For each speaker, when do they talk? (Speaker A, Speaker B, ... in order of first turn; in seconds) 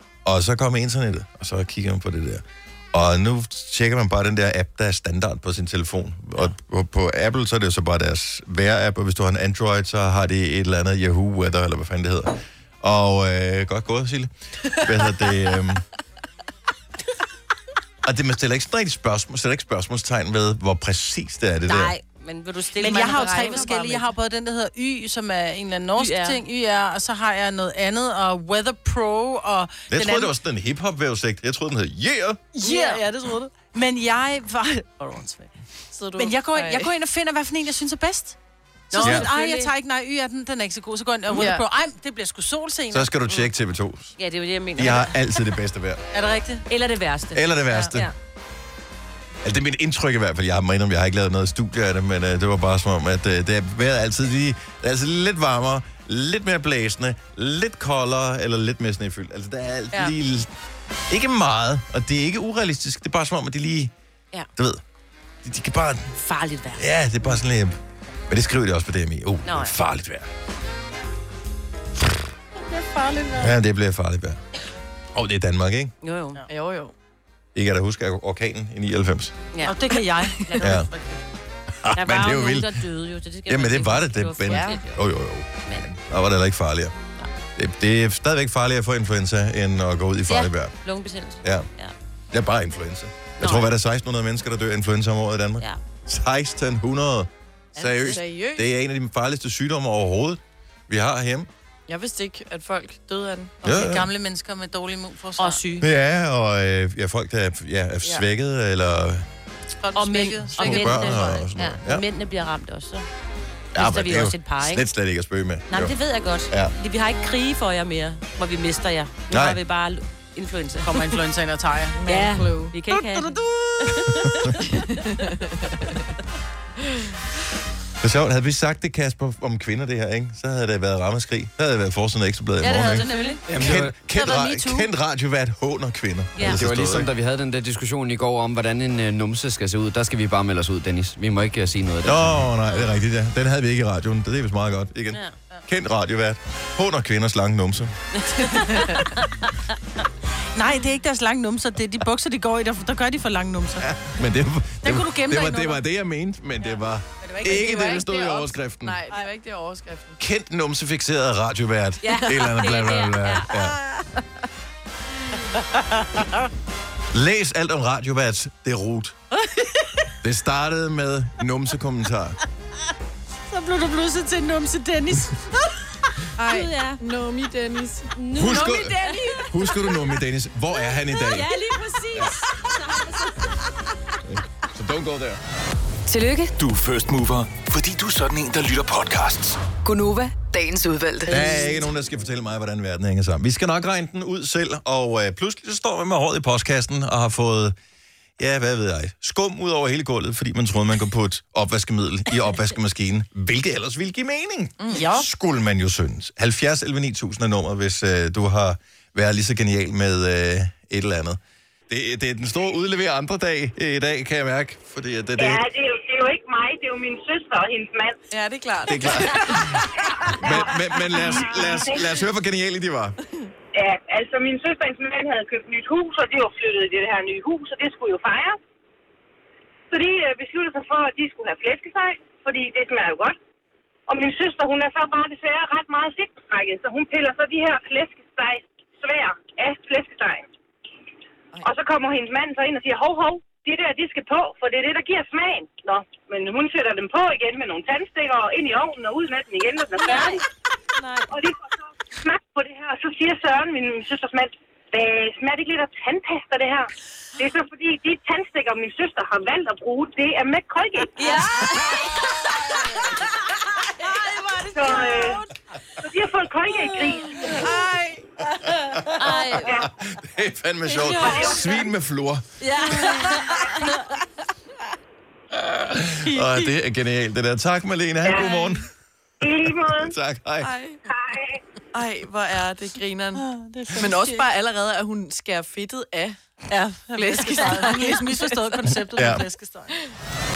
Speaker A: 0.2-15.8, 18.0-21.9, 29.9-32.5, 39.0-39.3, 42.9-44.1, 44.7-46.0, 47.3-48.1, 49.4-60.5, 61.1-63.9, 64.5-64.8, 65.4-66.1, 66.7-67.8, 68.3-70.3, 73.3-74.4, 75.1-75.9, 77.5-79.3, 80.6-80.9, 81.8-82.8, 83.5-86.9, 87.5-90.7, 91.4-91.7, 92.3-101.5, 103.6-104.1, 105.8-109.3, 110.5-112.0, 113.7-116.0, 119.3-119.6, 128.0-137.1, 142.0-147.9, 153.8-159.0, 160.2-163.8, 167.1-169.2, 170.2-172.4, 178.3-181.5, 184.3-185.4, 191.3-197.8, 198.4-215.6, 218.8-219.8, 220.4-223.2, 269.2-272.5, 275.5-278.9, 280.0-280.7, 289.1-289.4
Speaker B: 21.6-24.0, 25.9-26.4, 35.0-35.5, 38.9-39.7, 44.2-45.2, 46.7-48.1, 66.2-66.8, 69.4-69.7, 76.0-76.4, 79.5-81.2, 81.9-85.0, 90.3-91.9, 93.4-93.7, 97.8-98.1, 105.4-105.8, 109.9-113.0, 113.8-114.8, 115.7-121.2, 122.0-124.7, 132.6-133.4, 136.3-136.6, 148.1-150.0, 162.0-163.8, 176.4-177.0, 178.2-179.5, 181.1-184.2, 249.9-250.4, 250.9-251.3, 261.1-262.8, 263.8-265.5, 266.7-267.8, 268.9-269.9, 270.9-271.9, 272.6-274.2
Speaker C: 22.8-30.3, 32.5-35.2, 36.1-38.4, 38.9-43.1, 46.1-46.7, 47.7-47.9, 72.7-73.5, 79.6-80.6, 103.6-105.8, 109.8-111.0, 120.8-122.2, 122.9-124.4, 133.0-134.9, 150.6-153.9, 154.8-155.8, 157.2-157.5, 165.7-166.3, 173.5-175.4, 204.9-205.3, 276.3-276.6, 283.4-284.4, 286.7-290.0
Speaker D: 22.8-24.0, 32.6-32.9, 35.9-36.9, 41.4-41.6, 76.5-76.9, 84.5-84.8, 98.0-98.7, 101.9-103.6, 122.0-122.7, 124.7-125.9, 157.4-160.2, 176.4-179.4, 218.3-221.2, 280.6-281.1, 281.9-286.4, 287.1-288.9
Speaker E: 133.5-134.0, 136.4-142.5
Speaker F: 186.1-186.5, 189.8-191.7
Speaker G: 186.6-189.6
Speaker H: 215.3-218.2, 220.4-222.1, 223.7-228.6, 229.9-233.3, 234.1-240.5, 241.6-250.4, 251.3-261.2, 264.7-265.4, 266.0-267.4, 269.6-269.9, 271.3-271.7, 278.2-278.7, 279.4-280.1, 281.1-281.6